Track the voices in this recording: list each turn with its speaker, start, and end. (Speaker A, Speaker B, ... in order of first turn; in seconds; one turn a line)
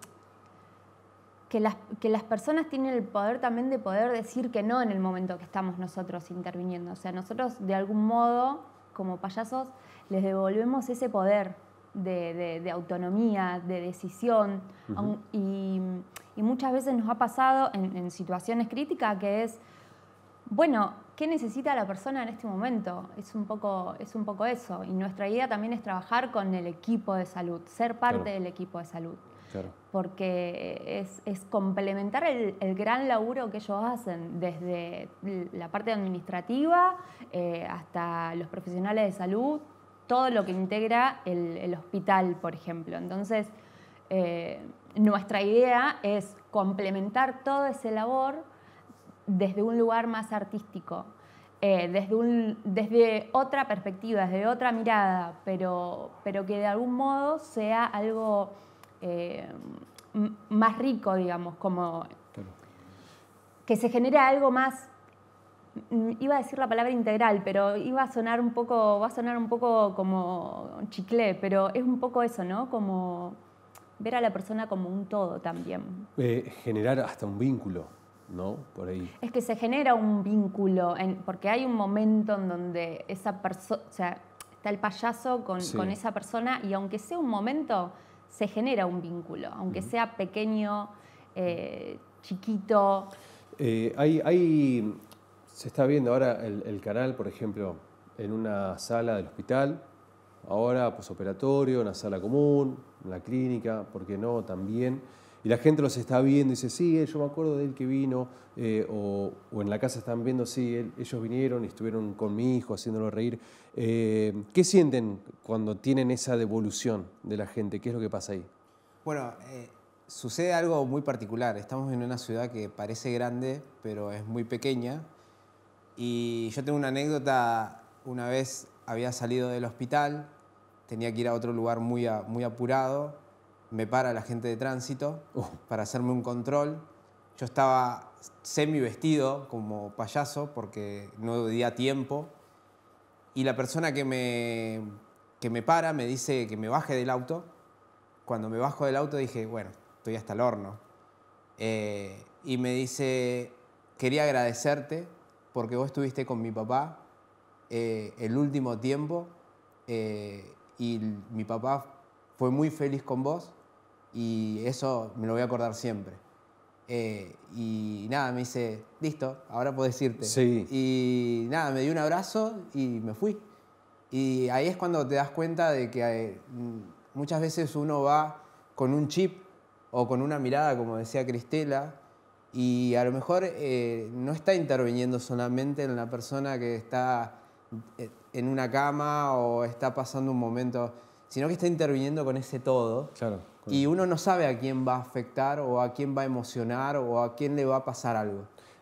Speaker A: 1.5-19.6
Speaker B: 14.9-15.2
Speaker A: 20.5-29.3
Speaker A: 29.9-43.5
Speaker A: 44.1-48.5
Speaker A: 49.2-62.1
Speaker A: 63.6-64.9
Speaker A: 65.9-73.4
Speaker A: 74.0-76.1
Speaker B: 76.2-79.1
Speaker A: 79.2-93.1
Speaker B: 85.6-86.0
Speaker B: 93.6-99.9
Speaker B: 100.4-118.5
Speaker C: 119.0-125.1
Speaker C: 126.0-130.3
Speaker C: 130.9-142.3
Speaker C: 143.3-147.5
Speaker C: 148.2-150.8
Speaker C: 151.6-157.0
Speaker C: 157.7-163.6
Speaker C: 164.1-166.2
Speaker C: 166.9-173.5
Speaker B: 170.2-170.7
Speaker C: 174.1-182.0
Speaker C: 182.5-198.5
Speaker B: 193.2-193.8